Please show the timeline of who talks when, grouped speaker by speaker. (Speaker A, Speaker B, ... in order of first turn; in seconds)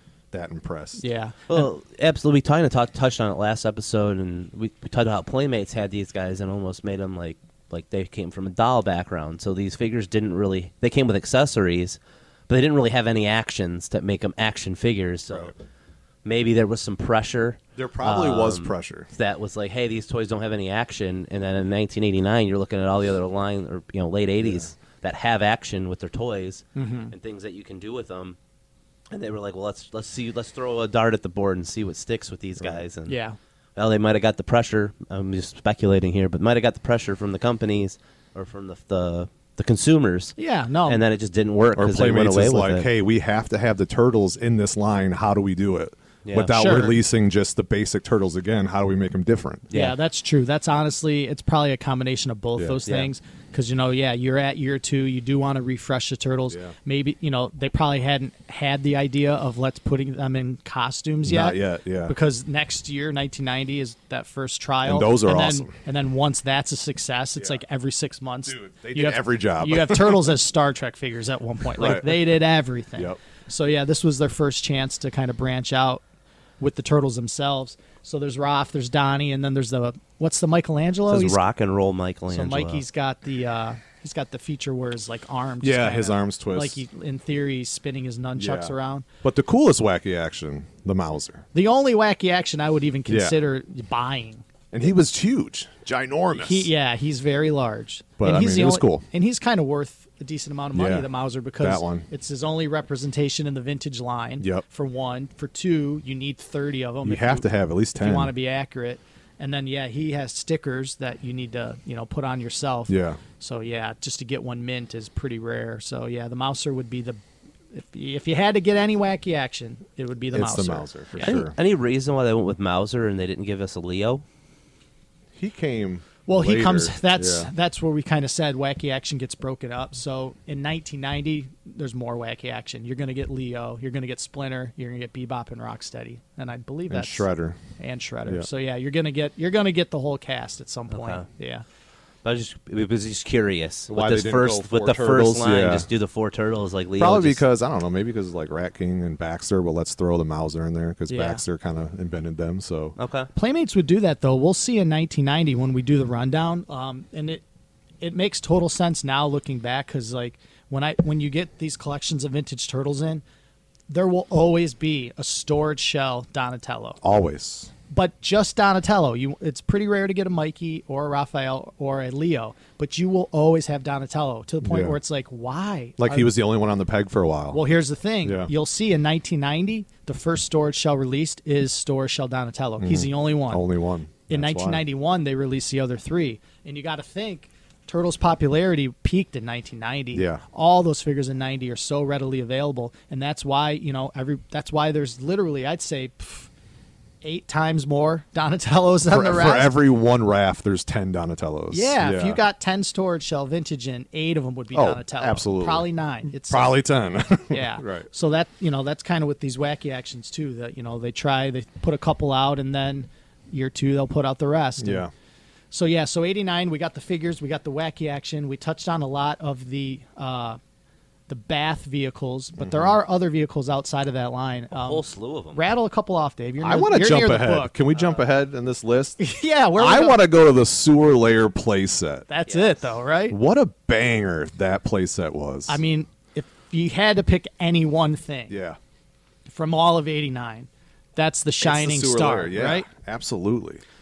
Speaker A: 0.3-1.0, 17.8-19.1, 24.4-24.7, 41.8-49.7, 61.2-62.1, 64.8-65.7, 67.4-67.6, 68.4-70.3, 71.8-72.2, 85.6-86.8, 88.4-91.4, 93.1-93.3, 94.7-96.7, 98.2-99.0, 100.7-101.1, 101.6-102.0, 107.0-108.3, 112.9-113.2, 120.3-121.5, 125.3-127.5, 136.9-137.6, 143.9-145.9, 147.0-152.9, 167.0-167.7, 174.6-175.0, 176.0-177.6, 178.2-178.5, 182.8-184.8, 190.1-190.4, 199.1-202.4, 204.7-205.9, 206.4-208.1, 214.8-215.1, 222.6-223.0, 226.6-229.2, 229.8-232.3, 233.3-235.8, 238.5-238.8, 241.6-243.8
Speaker B: 1.0-1.6, 26.8-27.1, 33.1-33.4, 40.4-41.0, 46.5-47.0, 49.7-76.0, 76.6-81.4, 82.3-89.0, 91.5-94.4, 96.3-117.2, 117.7-121.4, 126.2-141.6, 151.1-151.4, 153.3-157.4, 158.0-163.2, 163.9-167.0, 167.9-176.3, 177.5-183.6, 184.3-196.5, 197.2-199.7, 201.7-206.8, 207.5-215.0, 215.7-220.6, 221.3-227.8, 229.2-230.2, 232.3-233.4, 235.7-238.5, 239.4-242.9
Speaker C: 1.5-12.0, 12.5-15.5, 16.2-28.4, 29.1-33.1, 33.8-40.3, 40.9-42.9, 46.2-46.6, 49.7-50.0, 81.1-82.8, 121.2-124.2, 140.9-141.2, 142.2-147.4, 153.0-153.3, 224.7-225.6, 232.5-232.7